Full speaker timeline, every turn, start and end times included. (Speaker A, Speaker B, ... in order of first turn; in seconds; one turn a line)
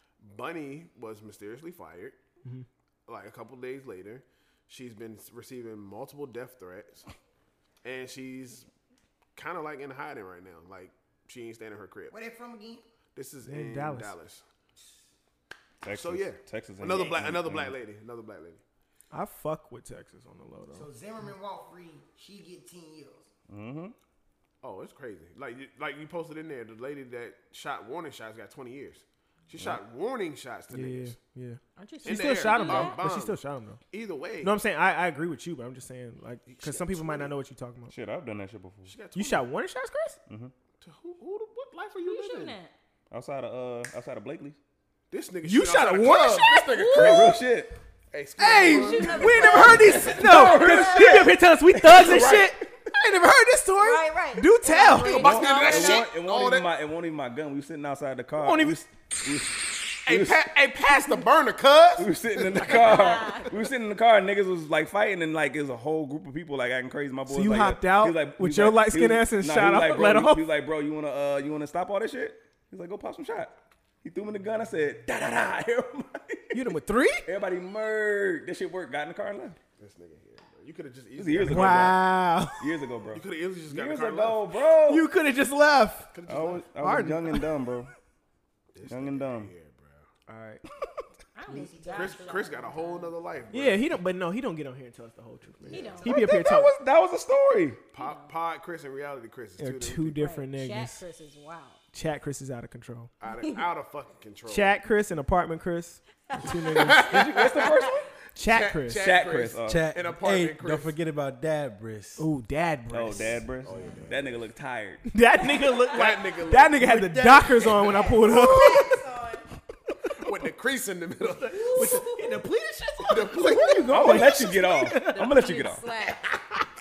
Speaker A: 0.2-2.2
Speaker A: 3.1-7.1
Speaker A: 7.8-8.7
Speaker A: 9.4-12.1
Speaker B: 12.1-12.8
Speaker A: 13.2-14.4
Speaker C: 13.4-14.2
Speaker D: 15.8-17.8
Speaker A: 15.9-18.6
Speaker C: 19.1-20.9
Speaker B: 20.7-23.3
Speaker D: 23.5-23.9
Speaker A: 24.6-31.2
Speaker C: 30.7-33.8
Speaker E: 31.8-33.0
Speaker A: 32.0-34.6
Speaker C: 34.4-37.9
Speaker A: 36.5-37.4
Speaker D: 37.9-38.9
Speaker A: 38.9-39.5
Speaker C: 39.1-40.2
Speaker D: 40.3-40.5
Speaker A: 40.8-42.6
Speaker E: 42.0-42.7
Speaker D: 43.1-44.6
Speaker A: 45.1-47.5
Speaker C: 45.4-46.9
Speaker E: 46.7-47.3
Speaker D: 46.9-47.8
Speaker A: 48.1-50.9
Speaker C: 48.4-55.3
Speaker E: 48.6-51.3
Speaker D: 49.5-52.7
Speaker E: 53.8-56.0
Speaker A: 55.0-56.8
Speaker B: 55.0-56.0
Speaker D: 55.1-60.5
Speaker C: 58.4-58.8
Speaker A: 60.0-63.0
Speaker D: 62.0-76.7
Speaker E: 62.6-63.5
Speaker C: 67.3-70.5
Speaker C: 76.5-77.3
Speaker D: 77.2-79.6
Speaker A: 79.8-82.0
Speaker D: 81.2-85.1
Speaker C: 81.4-82.6
Speaker A: 83.1-84.6
Speaker C: 84.8-86.1
Speaker A: 86.1-86.7
Speaker D: 86.3-87.9
Speaker C: 86.8-87.5
Speaker A: 88.7-90.1
Speaker D: 88.9-89.5
Speaker C: 90.3-90.6
Speaker E: 91.3-93.2
Speaker B: 91.5-92.7
Speaker A: 91.9-93.9
Speaker C: 93.5-96.7
Speaker A: 95.6-96.1
Speaker E: 95.7-96.0
Speaker B: 95.7-96.3
Speaker D: 96.0-97.8
Speaker A: 97.9-100.3
Speaker E: 98.0-98.3
Speaker C: 99.6-101.0
Speaker E: 100.2-101.8
Speaker C: 101.9-103.1
Speaker A: 103.2-104.8
Speaker C: 104.5-107.2
Speaker E: 106.7-106.9
Speaker A: 106.8-111.0
Speaker D: 107.0-108.1
Speaker C: 108.3-109.0
Speaker D: 108.9-109.9
Speaker F: 109.6-112.3
Speaker C: 112.2-113.4
Speaker D: 112.9-115.1
Speaker A: 113.6-114.5
Speaker C: 115.1-119.0
Speaker E: 115.5-116.0
Speaker A: 115.9-117.0
Speaker E: 117.5-119.5
Speaker A: 118.3-118.7
Speaker A: 120.2-122.0
Speaker C: 121.4-125.3
Speaker E: 121.5-122.4
Speaker A: 123.1-124.4
Speaker D: 123.9-125.9
Speaker E: 124.8-126.3